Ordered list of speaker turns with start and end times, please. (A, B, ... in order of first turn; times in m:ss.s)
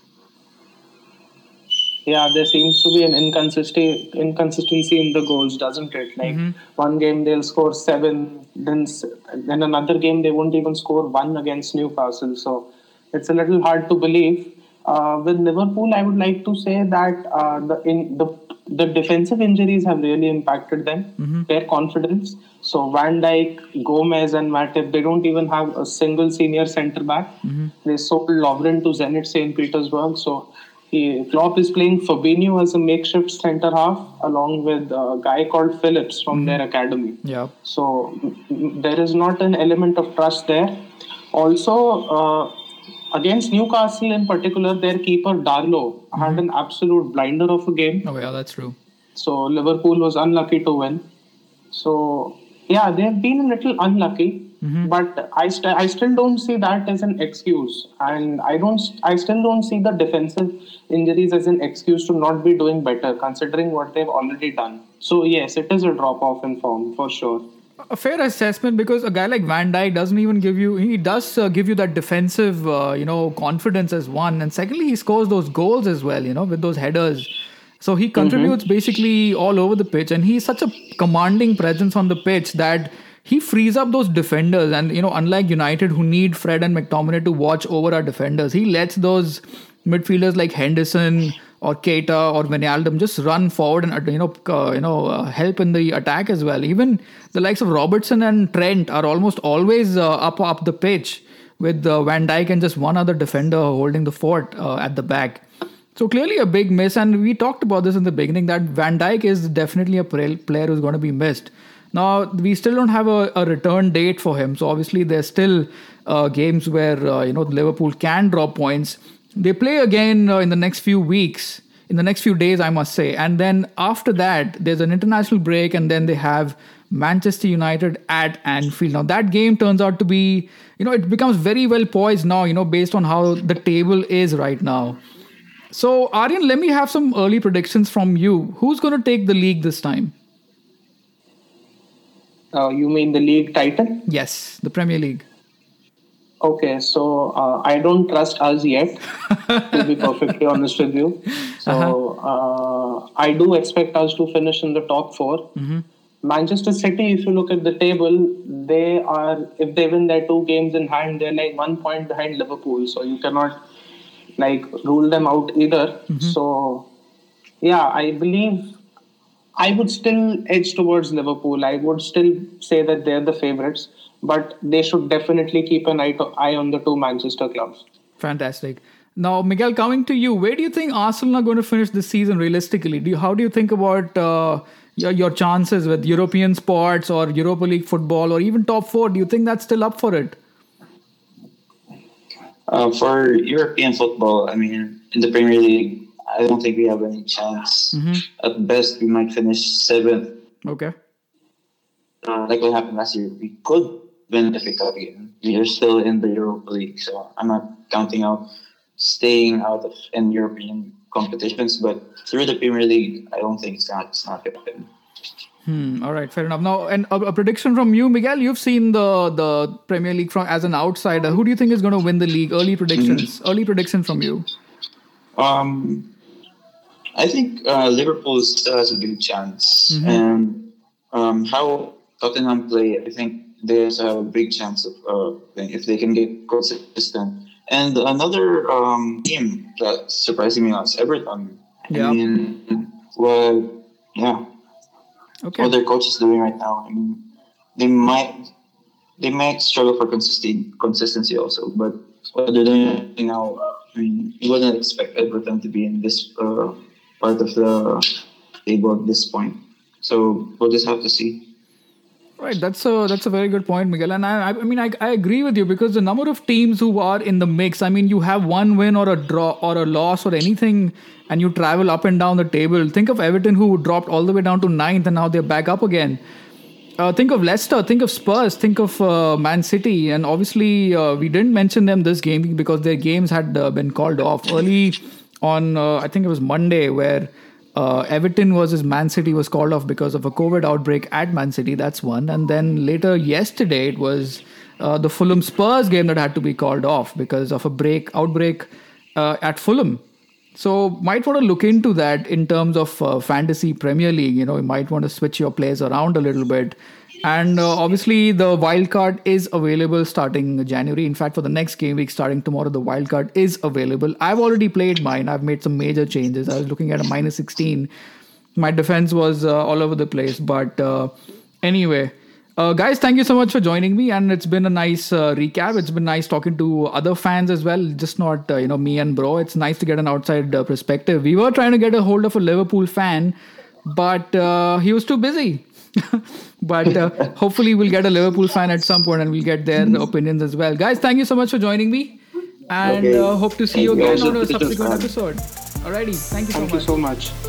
0:02.1-0:27.3 A
0:06.2-0:06.5 B
0:21.2-0:21.5 B
0:27.4-0:27.7 B
0:27.8-0:40.8 A
0:36.3-0:36.6 B
0:37.2-0:37.5 B
0:41.3-0:42.5 A
0:43.1-0:48.0 A
0:46.2-0:46.4 B
0:48.0-0:48.8 B
0:49.2-0:51.0 A
0:51.7-1:07.4 A
0:54.6-0:54.9 B
1:07.9-1:17.3 B
1:17.8-1:45.4 B
1:18.2-1:18.5 A
1:46.0-2:15.0 B
2:15.7-2:20.1 B
2:22.5-2:24.0 A
2:24.1-2:25.2 B
2:26.4-2:29.0 A
2:29.3-2:29.9 B
2:29.7-2:35.5 A
2:31.4-2:32.0 B
2:35.6-2:35.8 B
2:36.2-2:43.6 A
2:44.4-2:46.9 A
2:46.1-2:46.4 B
2:47.6-2:48.7 A
2:49.6-2:57.8 A
2:58.2-3:10.4 B
3:12.7-3:20.3 C
3:17.9-3:18.2 B
3:20.6-3:20.9 B
3:22.2-3:28.4 C
3:29.0-3:34.9 C
3:35.6-3:44.4 B
3:42.9-3:43.3 C
3:45.4-3:46.1 C
3:47.2-4:04.4 C
3:49.9-3:50.2 B
4:01.9-4:02.2 B
4:05.4-4:05.7 B
4:05.6-4:07.2 C
4:07.8-4:08.4 C
4:09.2-4:21.4 C
4:22.4-4:36.2 B
4:37.0-5:00.0 B
5:00.5-5:17.9 B
5:18.6-5:21.1 B
5:21.6-5:33.3 B
5:33.8-5:42.2 B
5:42.7-5:46.9 B
5:42.8-5:45.1 C
5:46.5-5:47.3 A